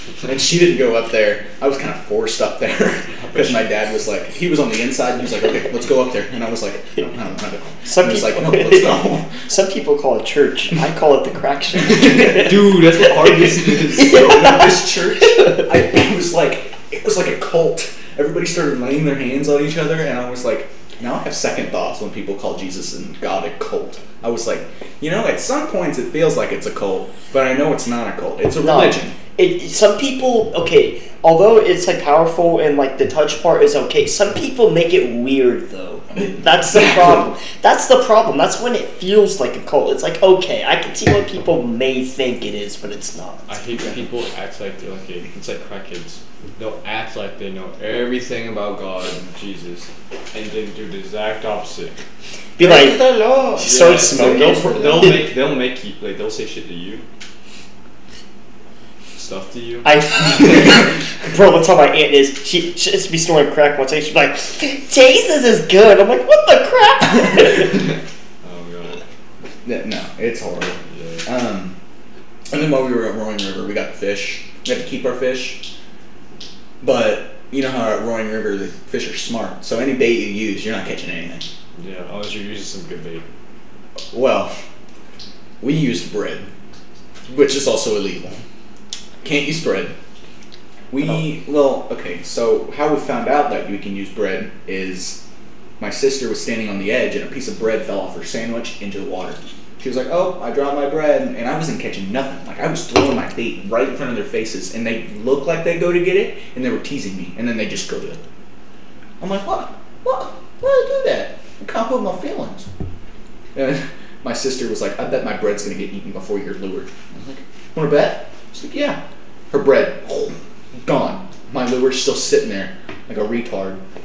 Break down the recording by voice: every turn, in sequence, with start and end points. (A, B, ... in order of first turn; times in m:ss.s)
0:00.2-0:09.4 A
0:03.1-0:03.6 B
0:07.8-0:15.7 C
0:11.8-0:14.3 B
0:13.9-0:29.1 A
0:28.6-0:43.5 C
0:36.1-0:37.3 A
0:43.5-0:52.0 B
0:52.6-0:55.2 C
0:52.6-0:55.1 A
0:53.6-0:57.0 B
0:59.1-0:59.9 B
0:59.8-1:07.9 C
1:07.6-1:09.0 B
1:09.6-1:11.7 A
1:10.9-1:11.2 B
1:12.5-1:15.6 A
1:16.8-1:21.4 A
1:21.8-1:23.2 B
1:24.1-1:24.5 A
1:25.6-1:26.5 A
1:27.3-1:28.4 A
1:29.2-1:30.0 A
1:30.9-1:35.2 A
1:35.8-1:48.2 A
1:49.2-1:52.7 A
1:53.5-1:59.0 A
1:59.5-2:03.8 A